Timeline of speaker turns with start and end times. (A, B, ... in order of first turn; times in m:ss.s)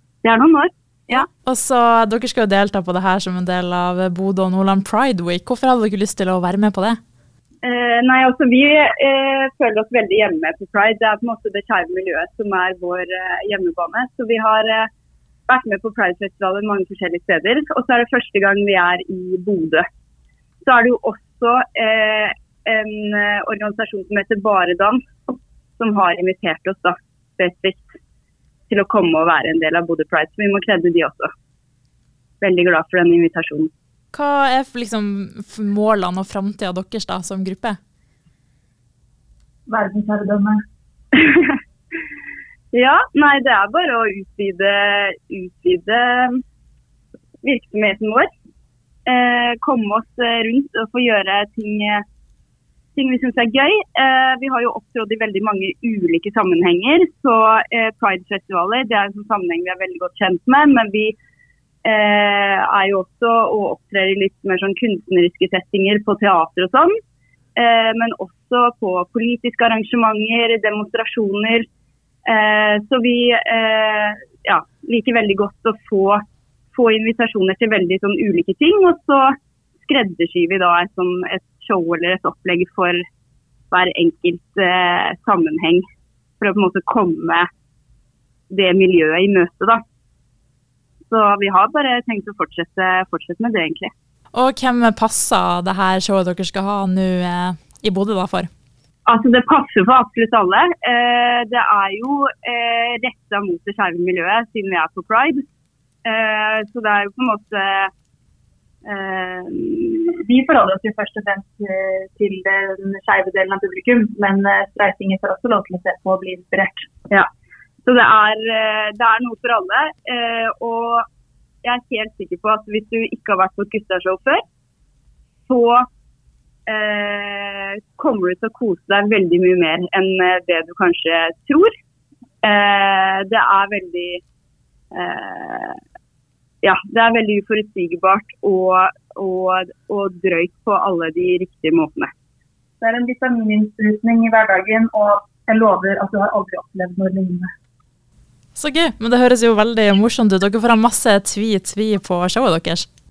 0:00.2-0:01.2 A
0:01.1-0:07.0 B
0:07.6-0:14.9 A
0:15.5-0:19.8 A
0:20.6-0:28.0 A
0:28.7-0:31.3 A
0:32.4-0:33.7 A
0:34.1-0:37.8 B
0:39.7-0:40.6 C
0:41.1-0:41.6 A
0:42.7-0:46.4 A
0:47.4-0:48.3 A
0:49.0-0:52.0 A
0:53.0-1:01.1 A
1:01.8-1:06.9 A
1:07.6-1:11.7 A
1:12.2-1:23.0 A
1:23.7-1:25.8 A
1:26.4-1:27.5 A
1:28.5-1:29.8 A
1:31.1-1:33.9 A
1:34.3-1:38.5 B
1:39.0-1:45.4 A
1:46.0-1:47.9 A
1:48.8-1:50.1 A
1:50.2-1:56.9 C
1:57.8-2:01.0 A
2:01.6-2:04.4 A
2:05.5-2:05.8 A
2:06.7-2:11.7 A
2:12.4-2:14.2 A
2:14.9-2:15.8 A
2:16.6-2:22.1 A
2:22.8-2:27.5 C
2:28.5-2:32.8 B